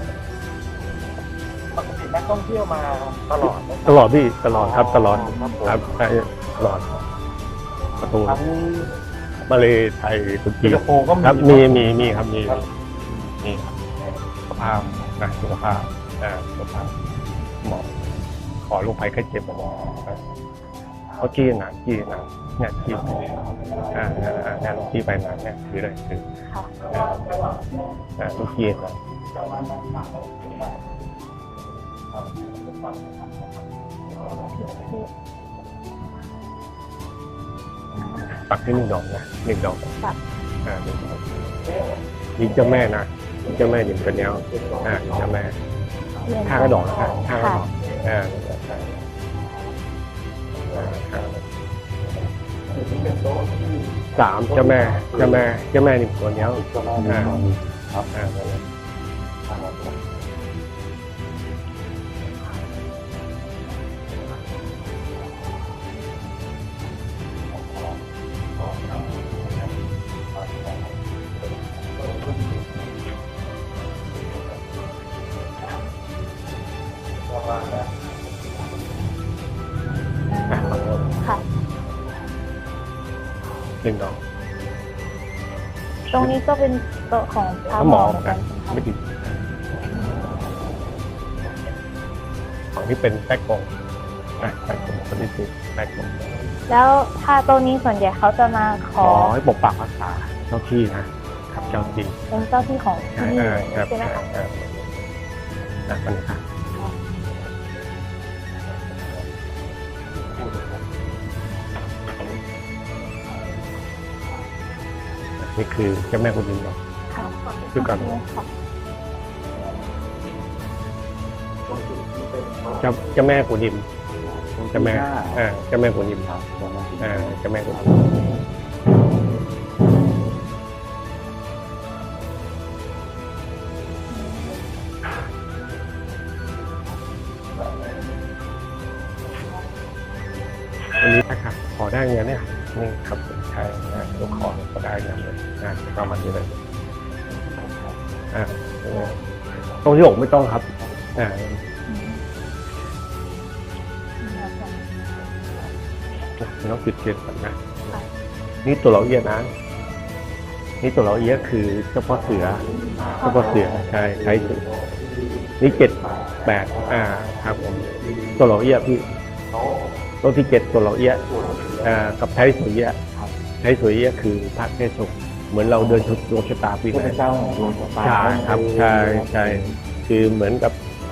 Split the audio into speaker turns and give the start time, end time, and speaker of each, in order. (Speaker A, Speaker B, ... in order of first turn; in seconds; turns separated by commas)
Speaker A: 1.8-5.9, Speaker B: 3.9-6.9, Speaker B: 8.0-8.4, Speaker A: 8.3-8.9, Speaker B: 9.5-12.7, Speaker A: 10.6-12.6, Speaker B: 13.4-13.8, Speaker B: 14.5-16.9, Speaker B: 17.6-18.0, Speaker B: 18.6-20.2, Speaker B: 21.2-23.4, Speaker B: 23.9-26.2, Speaker B: 26.9-27.2, Speaker B: 28.2-28.9, Speaker C: 34.6-35.1, Speaker B: 38.5-40.0, Speaker B: 40.6-41.4, Speaker B: 42.4-45.6, Speaker A: 44.6-45.2, Speaker C: 46.3-47.6, Speaker B: 46.4-48.9, Speaker B: 50.7-51.4, Speaker A: 52.8-55.5, Speaker B: 54.1-57.5, Speaker A: 56.5-58.1, Speaker B: 58.1-58.6, Speaker A: 59.5-60.0, Speaker C: 80.3-81.4, Speaker B: 80.5-81.1, Speaker B: 83.8-84.2, Speaker C: 86.1-88.8, Speaker B: 87.8-89.4, Speaker B: 92.8-93.7, Speaker B: 94.4-96.2, Speaker C: 96.7-99.3, Speaker B: 99.0-102.2, Speaker C: 101.7-104.2, Speaker B: 103.2-104.8, Speaker B: 105.9-106.4, Speaker B: 115.4-116.8, Speaker C: 117.1-118.5, Speaker B: 117.7-118.2, Speaker A: 121.7-123.1, Speaker B: 122.8-123.9, Speaker A: 124.2-127.4, Speaker B: 124.7-126.3, Speaker B: 127.0-128.1, Speaker C: 134.2-134.6, Speaker B: 141.0-146.6, Speaker C: 144.0-144.5, Speaker B: 148.3-149.2, Speaker B: 149.8-151.6, Speaker C: 151.9-152.2, Speaker C: 154.2-154.8, Speaker B: 156.4-157.9, Speaker B: 158.6-159.5, Speaker B: 160.8-162.7, Speaker A: 162.9-167.0, Speaker B: 163.2-164.6, Speaker C: 163.2-163.5, Speaker B: 165.6-169.0, Speaker B: 170.2-173.0, Speaker A: 171.3-172.2, Speaker B: 173.6-177.2, Speaker A: 176.9-179.8, Speaker B: 178.0-180.8